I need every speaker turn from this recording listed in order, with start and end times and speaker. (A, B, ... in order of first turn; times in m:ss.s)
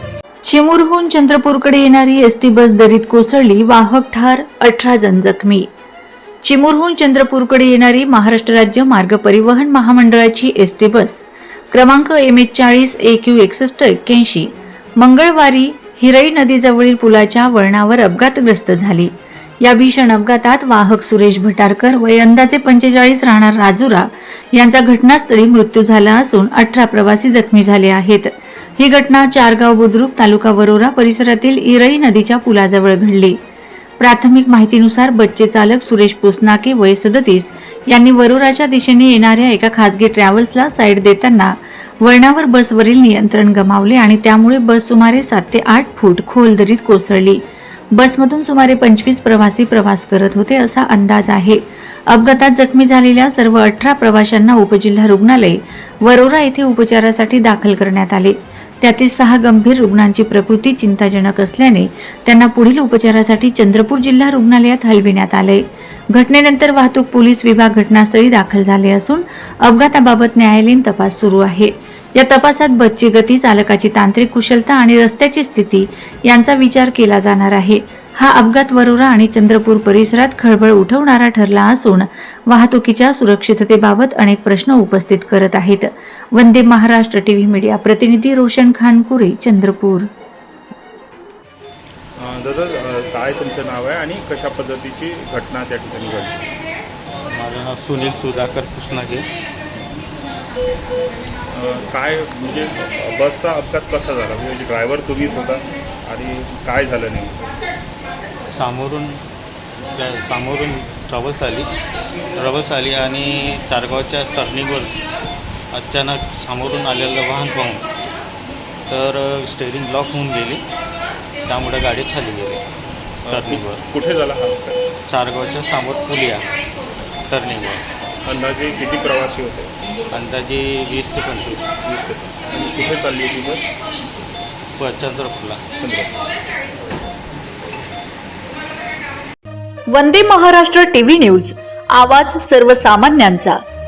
0:00.4-0:05.7 A
0:06.4-0:19.1 A
0:19.6-0:33.4 A
0:34.0-0:47.4 A
0:47.9-1:30.1 A
1:32.2-1:36.4 B
1:37.3-1:39.3 C
1:41.5-1:47.6 B
1:48.5-1:49.2 C
1:49.9-1:51.7 C
1:52.4-1:55.0 C
1:55.7-1:57.9 C
1:58.9-2:00.6 C
2:01.5-2:02.6 C
2:03.2-2:04.8 B
2:03.3-2:03.8 C
2:05.0-2:06.5 C
2:07.3-2:07.8 C
2:08.2-2:09.7 B
2:10.1-2:11.7 C
2:11.7-2:13.7 B
2:14.8-2:15.6 C
2:15.8-2:16.2 B
2:19.9-2:23.6 A